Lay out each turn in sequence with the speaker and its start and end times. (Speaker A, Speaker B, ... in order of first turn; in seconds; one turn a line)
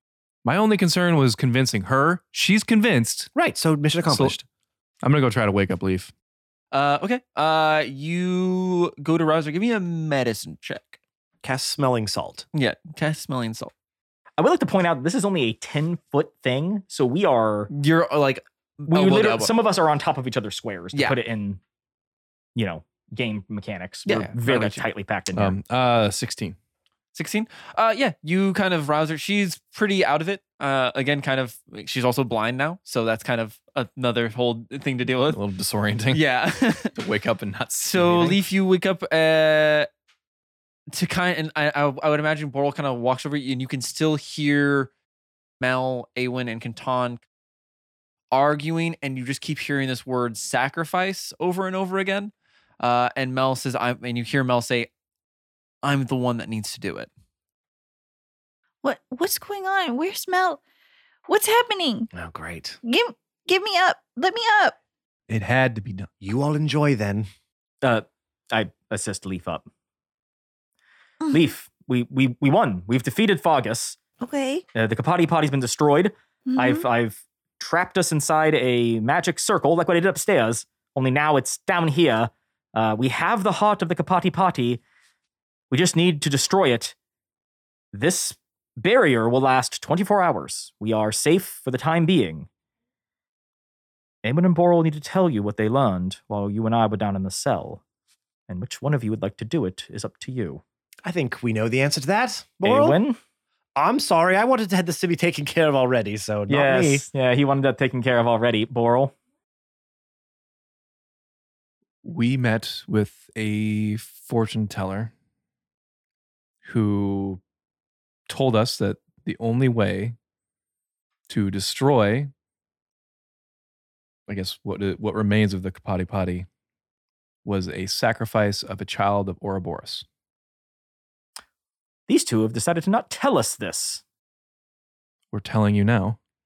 Speaker A: 0.4-3.3
Speaker B: 3.3-4.4
Speaker A: 4.1-4.4
Speaker A: 5.0-6.1
Speaker C: 6.7-11.0
Speaker B: 11.4-12.4
Speaker C: 12.5-13.7
Speaker D: 14.4-17.7
Speaker C: 17.7-19.5
Speaker D: 18.9-21.6
Speaker C: 20.9-21.2
Speaker D: 22.6-25.6
Speaker C: 24.1-24.8
Speaker A: 25.3-26.6
Speaker C: 27.1-35.4
Speaker A: 35.3-36.2
Speaker C: 36.1-36.9
Speaker A: 37.0-38.4
Speaker C: 37.8-39.9
Speaker C: 40.9-44.9
Speaker C: 45.6-47.2
Speaker C: 48.3-54.9
Speaker C: 55.8-57.1
Speaker E: 58.8-60.6
Speaker E: 61.3-62.1
Speaker B: 62.1-62.8
Speaker E: 62.8-64.7
Speaker A: 65.3-66.1
Speaker B: 66.2-67.3
Speaker D: 67.8-69.6
Speaker D: 71.3-74.0
Speaker E: 74.2-74.6
Speaker D: 74.7-84.8
Speaker E: 76.5-76.8
Speaker D: 85.7-86.9
Speaker D: 87.9-92.5
Speaker D: 94.2-97.8
Speaker D: 98.5-100.6
Speaker B: 101.0-103.0
Speaker D: 102.6-103.2
Speaker B: 103.8-107.1
Speaker D: 106.5-109.1
Speaker A: 112.0-115.1
Speaker A: 116.6-117.4
Speaker A: 118.3-120.1
Speaker A: 121.3-122.3
Speaker A: 124.3-126.5
Speaker A: 127.4-130.0
Speaker D: 132.1-134.0
Speaker A: 135.3-136.2